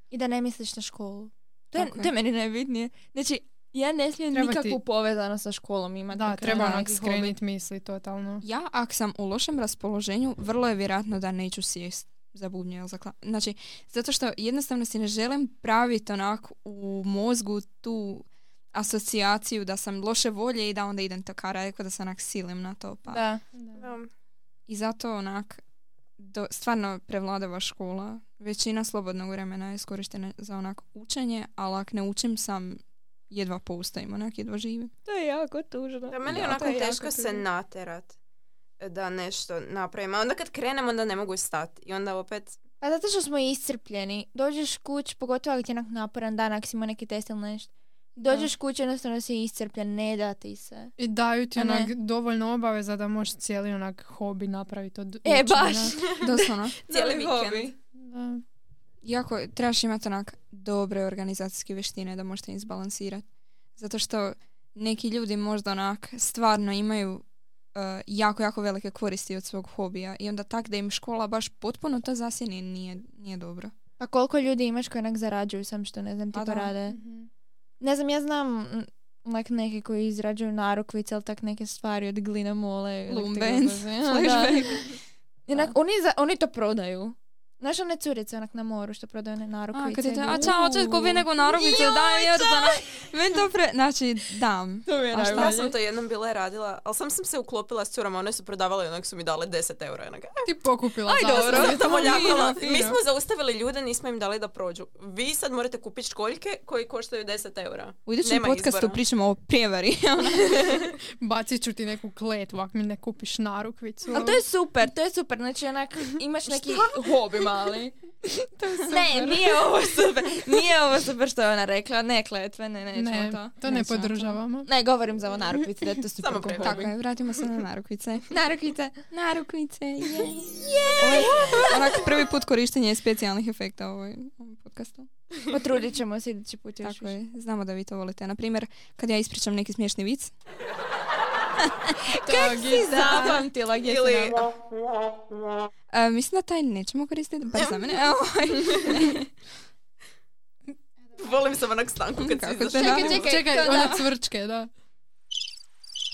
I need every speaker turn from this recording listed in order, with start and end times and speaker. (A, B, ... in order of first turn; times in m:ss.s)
0:00.1-0:07.3 A
0:01.7-0:02.1 B
0:04.3-0:04.8 C
0:06.1-0:08.4 C
0:06.4-0:06.8 B
0:08.4-0:23.2 B
0:23.1-0:23.4 A
0:23.6-0:23.9 C
0:23.8-0:24.1 D
0:24.7-0:25.6 B
0:26.2-0:34.9 B
0:35.0-0:37.4 A
0:36.1-0:38.2 D
0:36.3-0:36.7 B
0:38.8-0:42.6 D
0:42.8-0:50.9 A
0:48.2-0:48.5 C
0:51.0-0:56.0 C
0:51.6-0:51.9 A
0:55.2-0:56.2 A
0:56.2-0:56.9 B
0:56.9-0:57.7 A
0:56.9-0:57.7 D
0:58.0-0:58.4 C
0:59.0-1:03.2 B
1:03.8-1:07.2 B
1:07.7-1:13.7 B
1:14.0-1:17.0 A
1:16.3-1:16.7 B
1:16.9-1:17.3 C
1:17.8-1:24.7 A
1:23.1-1:24.9 B
1:25.5-1:33.0 A
1:29.7-1:35.6 B
1:34.8-1:35.8 A
1:35.3-1:40.5 D
1:40.4-1:42.9 C
1:41.2-1:42.8 B
1:41.2-1:49.0 D
1:41.3-1:42.4 A
1:48.1-1:50.6 B
1:50.5-1:50.9 D
1:51.2-1:54.4 C
1:54.1-2:03.5 A
1:58.6-1:59.5 C
2:02.9-2:04.7 C
2:03.6-2:04.4 B
2:04.6-2:06.9 A
2:06.2-2:06.9 D
2:06.6-2:08.3 B
2:08.3-2:09.0 A
2:09.1-2:10.4 B
2:10.2-2:11.8 A
2:11.0-2:15.1 B
2:15.5-2:17.2 A
2:16.8-2:20.3 B
2:22.1-2:24.4 A
2:22.2-2:23.4 C
2:23.1-2:25.2 D
2:25.9-2:29.3 B
2:27.5-2:28.0 D
2:28.7-2:29.0 D
2:31.2-2:33.3 D
2:32.2-2:34.0 B
2:32.8-2:34.1 A
2:33.1-2:34.7 C